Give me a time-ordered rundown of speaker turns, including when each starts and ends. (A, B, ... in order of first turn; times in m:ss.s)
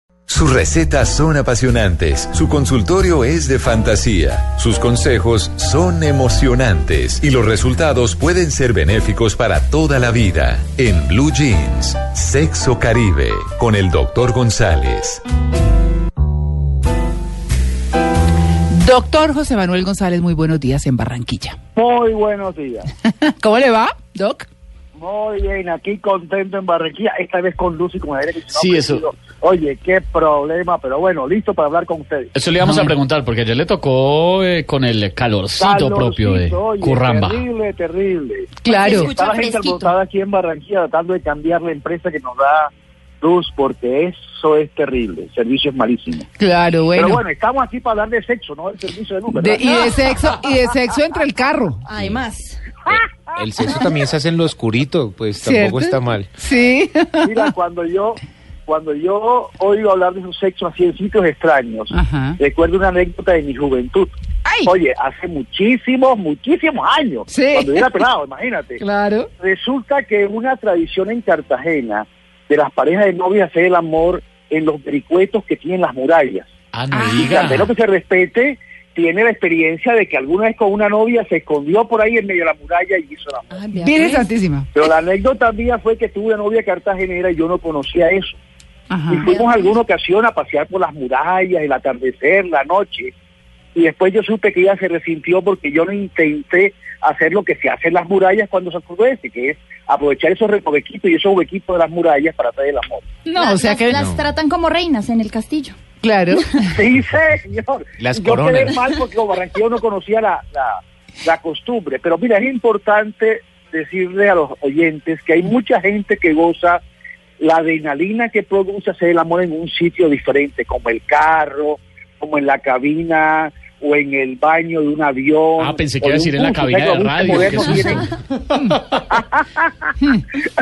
0:00.3-0:15.2 A
0:18.7-0:21.6 B
0:21.8-0:22.9 C
0:23.0-0:24.5 B
0:25.0-0:32.3 C
0:28.5-0:29.0 D
0:32.4-0:37.4 D
0:32.6-0:32.9 B
0:35.6-0:46.3 C
0:38.6-0:39.1 B
0:38.7-0:39.9 E
0:46.4-0:47.2 B
0:47.0-0:49.9 C
0:49.3-0:51.8 B
0:51.9-0:52.6 E
0:51.9-0:52.3 F
0:52.9-0:56.3 F
0:55.4-0:57.5 B
0:57.2-1:08.8 C
1:01.9-1:02.4 B
1:04.5-1:04.7 B
1:07.3-1:07.9 B
1:08.8-1:09.3 B
1:09.4-1:16.5 C
1:16.7-1:17.7 D
1:16.9-1:17.3 B
1:17.2-1:23.6 C
1:23.5-1:24.3 E
1:23.8-1:24.7 B
1:24.7-1:28.4 C
1:28.9-1:29.3 B
1:29.1-1:33.1 C
1:29.2-1:29.8 E
1:33.8-1:43.1 C
1:43.3-1:44.0 B
1:43.3-1:45.8 E
1:43.9-1:44.3 F
1:46.0-1:46.7 B
1:46.7-1:56.8 C
1:48.0-1:48.8 F
1:57.4-2:08.1 C
2:05.6-2:08.1 D
2:08.5-2:08.8 B
2:09.1-2:10.0 C